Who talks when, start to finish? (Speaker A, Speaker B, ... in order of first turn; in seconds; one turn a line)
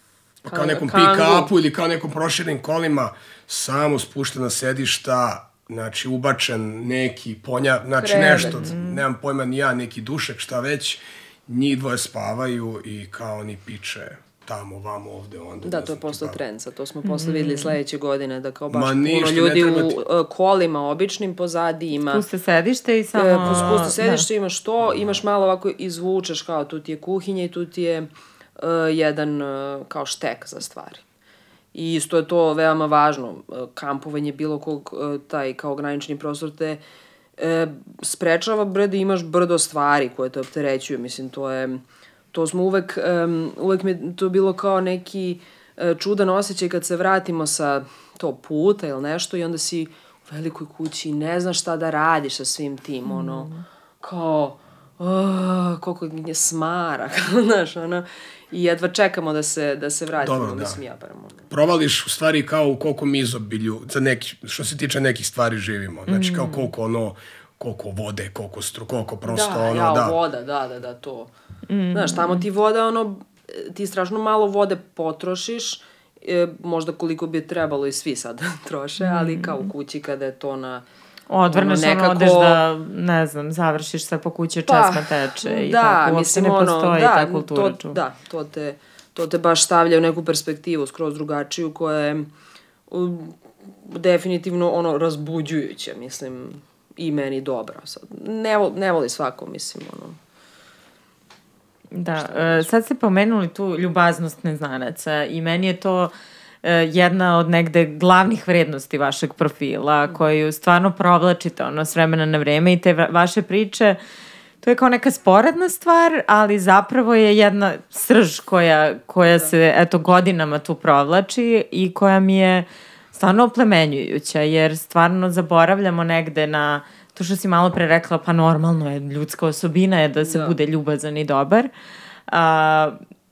Speaker A: 0.5-16.4
Speaker B: 0.5-1.5
Speaker B: 8.0-8.7
Speaker C: 8.2-9.0
Speaker B: 15.6-22.2
Speaker C: 17.1-17.8
Speaker A: 18.7-20.0
Speaker C: 22.1-24.3
Speaker B: 23.1-28.1
Speaker A: 23.4-24.0
Speaker B: 28.6-31.0
Speaker B: 31.7-36.8
Speaker B: 37.4-53.5
Speaker C: 53.1-53.6
Speaker B: 54.0-61.4
Speaker A: 60.2-60.8
Speaker A: 61.5-70.2
Speaker C: 66.1-66.7
Speaker B: 69.3-71.3
Speaker C: 71.7-72.5
Speaker B: 71.9-80.8
Speaker C: 79.0-79.7
Speaker C: 81.3-88.0
Speaker B: 81.5-82.6
Speaker B: 84.7-92.3
Speaker B: 92.9-100.2
Speaker C: 101.9-114.0
Speaker B: 102.2-102.7
Speaker C: 114.6-131.7
Speaker B: 130.2-130.6
Speaker C: 132.3-133.0